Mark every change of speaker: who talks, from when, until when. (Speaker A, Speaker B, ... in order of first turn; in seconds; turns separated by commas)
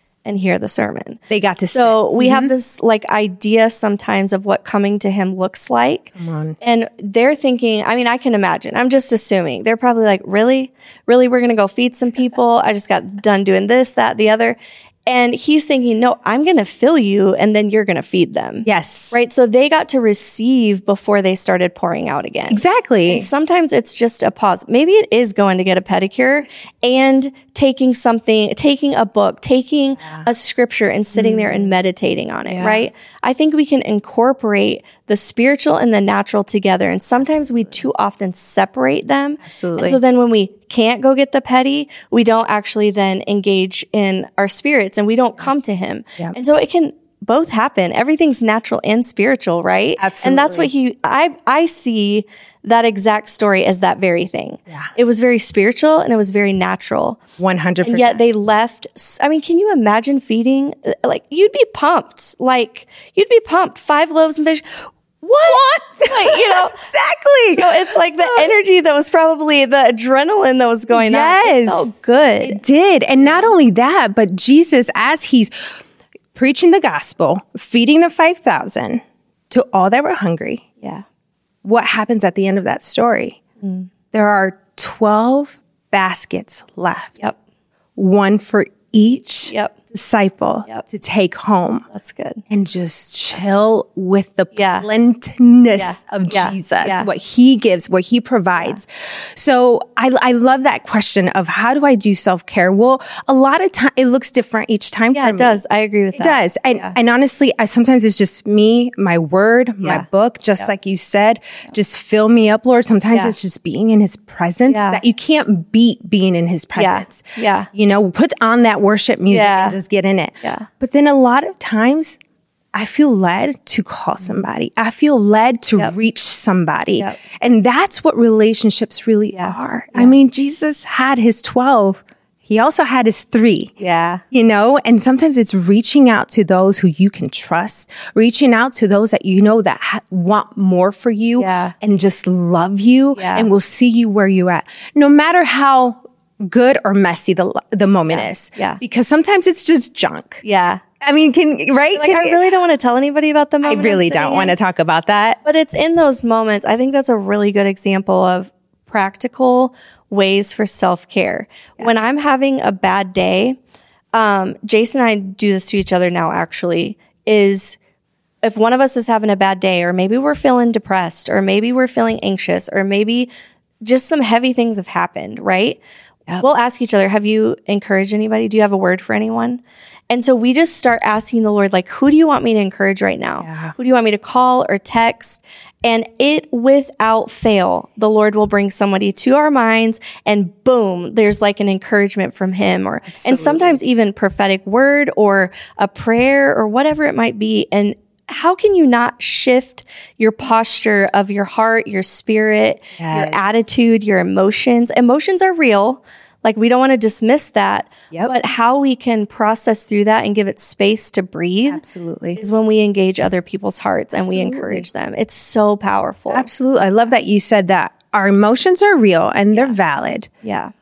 Speaker A: 0.2-1.2, Speaker B: 1.3-2.5, Speaker A: 1.7-57.2, Speaker B: 6.2-6.6, Speaker B: 18.6-19.2, Speaker B: 22.5-23.3, Speaker B: 30.0-30.3, Speaker B: 31.1-31.7, Speaker B: 32.5-32.8, Speaker B: 37.2-37.8, Speaker B: 39.4-40.0, Speaker B: 50.0-50.7, Speaker B: 57.4-58.2, Speaker A: 57.8-66.8, Speaker B: 65.4-68.5, Speaker A: 67.5-72.6, Speaker B: 70.9-75.8, Speaker A: 73.2-73.5, Speaker B: 76.3-80.7, Speaker B: 81.6-83.4, Speaker A: 83.6-83.9, Speaker B: 84.1-87.2, Speaker B: 88.0-91.9, Speaker A: 89.5-89.8, Speaker A: 91.9-92.4, Speaker B: 92.5-105.6, Speaker A: 94.5-94.9, Speaker A: 95.8-97.1, Speaker A: 105.1-107.0, Speaker B: 106.1-122.2, Speaker A: 109.8-110.1, Speaker A: 114.7-115.0, Speaker A: 116.8-117.7, Speaker A: 119.3-119.8, Speaker B: 122.7-133.7, Speaker A: 129.3-130.1, Speaker A: 133.8-134.2, Speaker B: 134.3-150.4, Speaker A: 141.4-141.7, Speaker A: 143.2-143.5, Speaker A: 148.1-148.8, Speaker A: 150.4-150.8, Speaker B: 151.0-152.4, Speaker A: 151.9-154.6, Speaker B: 153.6-155.4, Speaker A: 155.4-163.6, Speaker A: 164.1-167.8, Speaker A: 168.4-173.3, Speaker A: 173.8-175.8, Speaker A: 176.4-211.8, Speaker B: 183.4-183.7, Speaker B: 193.1-193.8, Speaker B: 203.0-203.6, Speaker B: 211.7-212.4, Speaker A: 212.4-216.5, Speaker B: 214.2-214.9, Speaker B: 216.3-220.3, Speaker A: 220.4-220.7